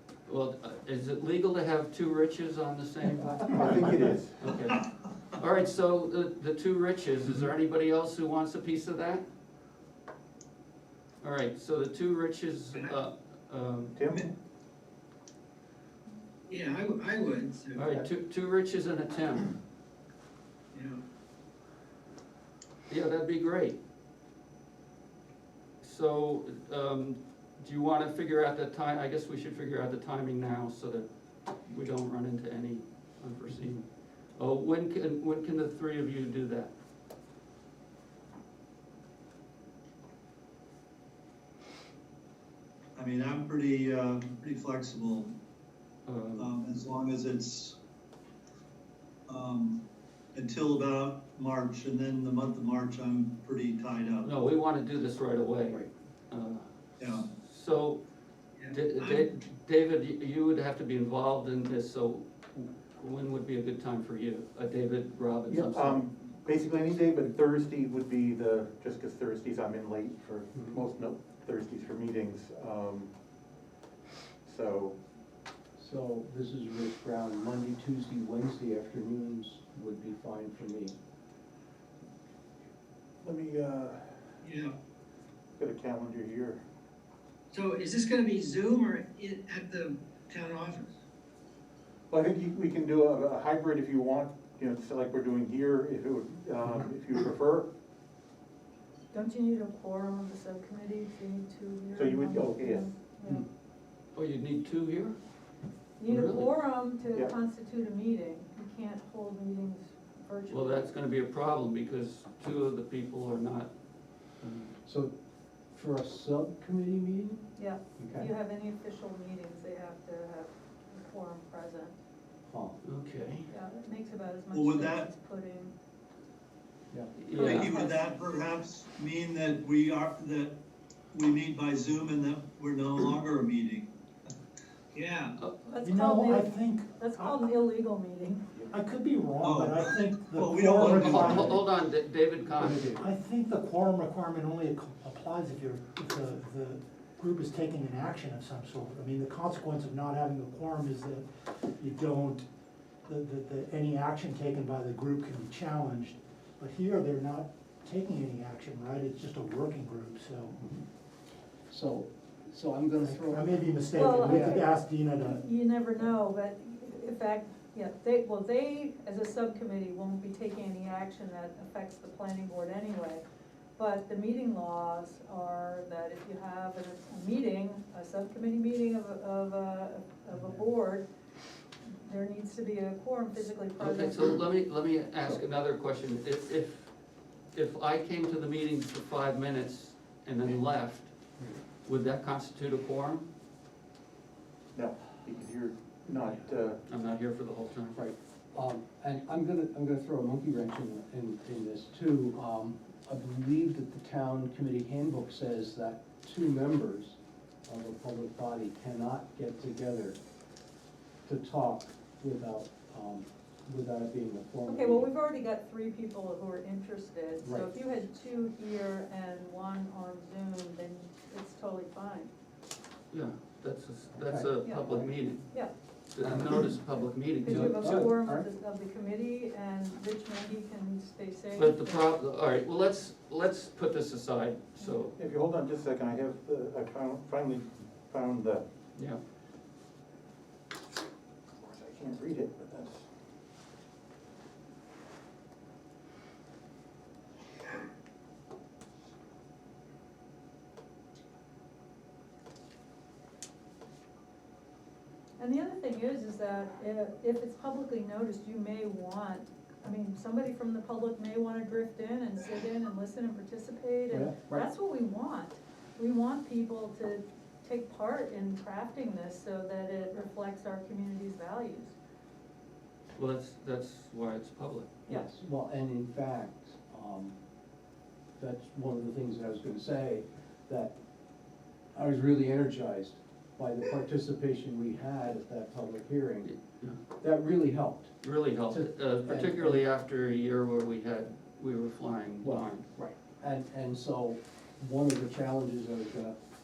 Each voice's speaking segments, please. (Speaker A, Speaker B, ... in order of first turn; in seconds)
Speaker A: 0.3-3.8, 4.4-9.2, 11.2-14.0, 17.8-19.6, 22.9-23.8, 25.8-36.7, 46.1-46.5, 54.2-58.0, 58.6-66.0, 104.2-105.2, 106.0-106.6, 110.5-113.7, 114.3-114.7, 122.8-123.5, 127.2-127.7, 140.9-143.1, 183.8-186.9, 187.5-191.2, 191.8-193.3, 196.9-198.0, 223.1-228.1, 231.5-235.2, 238.9-239.2, 273.1-274.9, 286.4-287.0, 288.2-292.9
Speaker B: 3.5-4.4, 13.9-14.3, 65.5-73.1, 74.5-75.0, 83.2-84.2, 85.6-86.6, 92.1-97.7, 101.9-102.9, 139.6-141.6, 142.6-143.1, 163.3-163.7, 194.7-196.8, 235.2-238.6, 241.6-243.1
Speaker C: 16.5-17.8, 20.7-21.0, 84.4-84.8, 87.5-90.9
Speaker D: 43.0-45.3, 46.4-47.8, 49.3-54.3, 57.0-57.3, 58.6-59.3, 124.5-125.1, 127.4-130.6, 131.1-133.9, 134.9-135.4, 139.4-141.6
Speaker E: 75.8-81.0, 114.8-115.1, 115.7-117.4, 118.0-118.3, 122.5-122.8, 126.9-127.2, 161.7-164.6, 197.9-210.2, 211.2-215.1, 217.4-217.7, 224.2-225.1, 226.2-226.6, 227.5-228.5, 264.1-264.6, 275.1-277.4, 278.4-280.9, 281.9-286.5, 287.2-288.2, 288.7-289.8, 292.4-296.4
Speaker F: 99.1-103.4, 106.0-110.9, 117.6-122.0, 123.5-125.7, 127.3-128.2, 135.6-138.5, 163.9-173.2, 173.8-181.1, 181.8-184.3, 214.7-222.3, 224.6-225.7, 227.4-232.1, 255.4-271.9
Speaker G: 135.8-137.4, 138.7-141.4, 143.0-152.5, 153.1-160.6, 163.4-165.3